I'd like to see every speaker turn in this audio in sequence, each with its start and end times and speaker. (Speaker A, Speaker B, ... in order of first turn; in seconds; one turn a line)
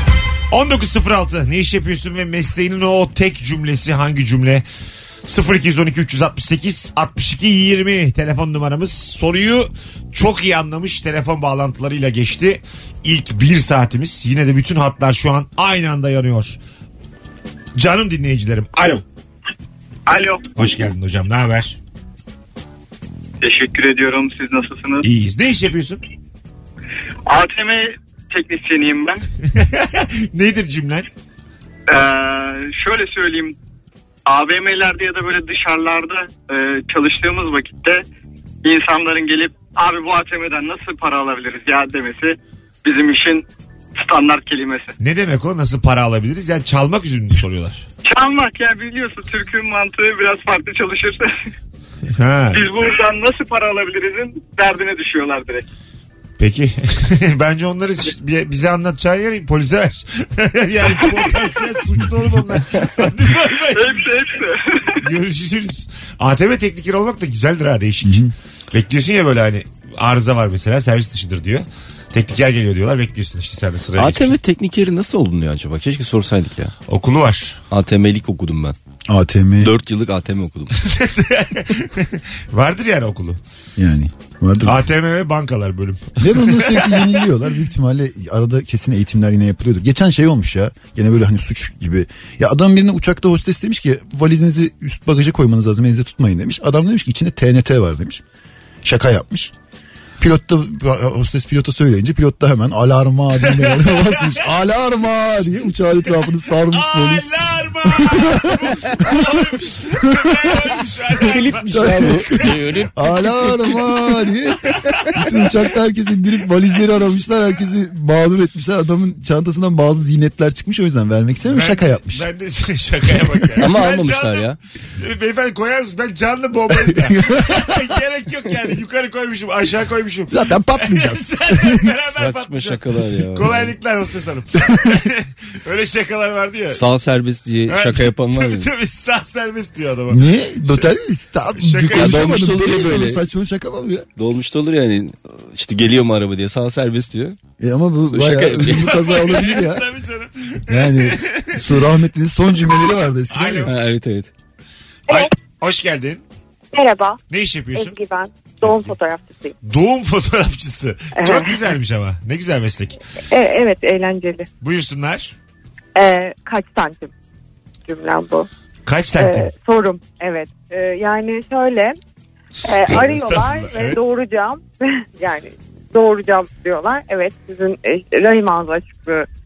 Speaker A: 0.5-4.6
Speaker A: 5.2-16.6
Speaker A: 17.8-19.0
Speaker B: 20.1-20.5
Speaker A: 20.6-21.8
Speaker B: 23.4-25.0
Speaker A: 25.0-26.0
Speaker B: 27.2-29.2
Speaker A: 29.5-31.1
Speaker B: 31.9-33.5
Speaker B: 34.2-38.0
Speaker B: 38.6-43.5
Speaker B: 44.0-44.9
Speaker A: 45.0-47.8
Speaker B: 48.0-51.5
Speaker A: 52.1-52.7
Speaker B: 52.5-55.6
Speaker A: 56.4-64.0
Speaker B: 61.0-61.4
Speaker B: 63.7-65.0
Speaker A: 65.0-74.3
Speaker C: 68.0-68.3
Speaker D: 74.0-76.7
Speaker A: 76.9-77.6
Speaker D: 77.7-78.8
Speaker C: 79.1-79.7
Speaker D: 79.6-80.7
Speaker A: 80.8-83.4
Speaker C: 83.8-84.8
Speaker A: 84.6-87.2
Speaker C: 86.2-98.2
Speaker C: 98.8-99.5
Speaker C: 100.2-109.3
Speaker A: 103.4-104.5
Speaker A: 106.7-112.8
Speaker D: 111.2-113.9
Speaker C: 111.7-112.4
Speaker C: 112.9-122.2
Speaker A: 121.5-136.8
Speaker D: 123.6-124.6
Speaker C: 126.9-127.5
Speaker C: 130.3-131.9
Speaker D: 132.2-133.7
Speaker D: 136.7-138.7
Speaker A: 137.7-140.9
Speaker C: 140.1-144.1
Speaker A: 141.6-142.3
Speaker D: 141.9-143.2
Speaker D: 144.2-147.4
Speaker C: 147.6-149.8
Speaker D: 148.1-149.0
Speaker A: 148.7-151.6
Speaker C: 150.7-153.7
Speaker A: 153.3-153.7
Speaker D: 153.6-154.3
Speaker A: 155.1-156.2
Speaker E: 156.7-157.2
Speaker A: 157.3-157.9
Speaker E: 157.7-159.5
Speaker A: 158.6-158.9
Speaker A: 159.6-163.0
Speaker E: 161.2-161.5
Speaker E: 163.3-164.5
Speaker A: 164.6-165.3
Speaker E: 165.9-167.1
Speaker E: 167.9-168.5
Speaker A: 168.8-169.5
Speaker E: 169.2-172.0
Speaker E: 172.6-179.3
Speaker A: 172.9-174.0